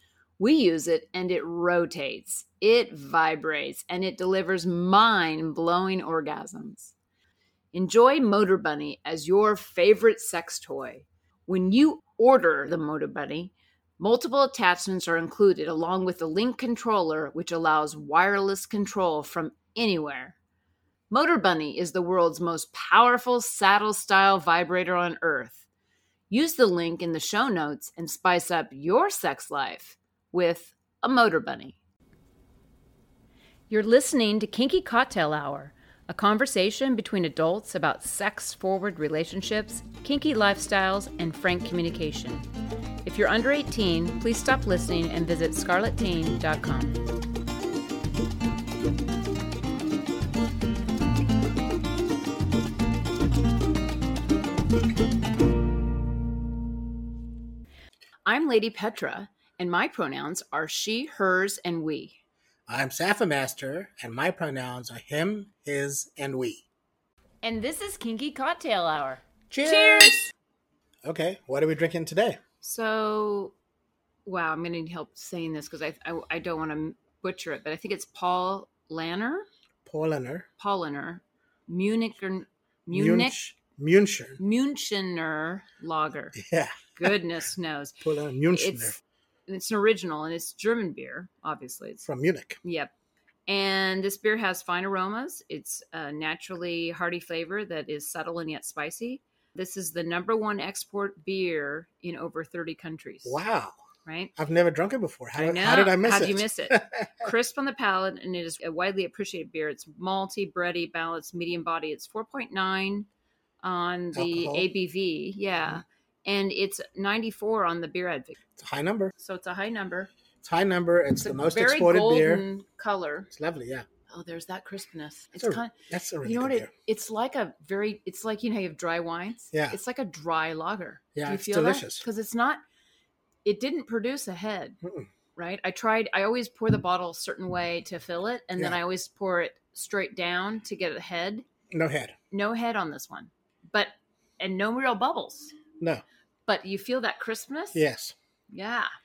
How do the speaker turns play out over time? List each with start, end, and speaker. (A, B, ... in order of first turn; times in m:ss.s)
0:00.4-0:06.9 A
0:07.7-0:20.4 A
0:21.1-0:25.6 A
0:26.3-0:31.8 A
0:33.7-0:42.4 A
0:43.0-0:47.0 A
0:58.2-1:02.2 A
1:02.7-1:06.6 B
1:07.4-1:10.3 A
1:09.5-1:10.2 B
1:11.0-1:12.4 B
1:12.6-1:13.5 A
1:14.2-1:19.4 A
1:19.8-1:20.5 B
1:20.6-1:23.4 A
1:22.9-1:24.4 B
1:24.4-1:26.4 A
1:26.4-1:27.2 B
1:27.0-1:32.0 A
1:28.0-1:29.0 B
1:32.0-1:32.6 B
1:32.6-1:32.9 A
1:33.5-1:43.4 A
1:43.2-1:43.8 B
1:44.0-1:44.3 A
1:44.4-1:47.3 B
1:45.3-1:53.1 A
1:53.6-1:58.4 A
1:54.1-1:54.7 B
1:58.6-1:59.1 B
1:59.2-2:00.1 A
2:00.4-2:02.5 B
2:01.2-2:03.3 A
2:03.3-2:03.8 B
2:04.1-2:05.7 A
2:05.4-2:06.7 B
2:06.2-2:12.6 A
2:09.5-2:09.8 B
2:11.1-2:12.0 B
2:13.4-2:14.8 A
2:14.8-2:15.1 B
2:15.3-2:21.4 A
2:21.7-2:22.1 B
2:22.3-2:25.6 A
2:26.5-2:27.8 A
2:27.7-2:28.1 B
2:28.5-2:28.9 A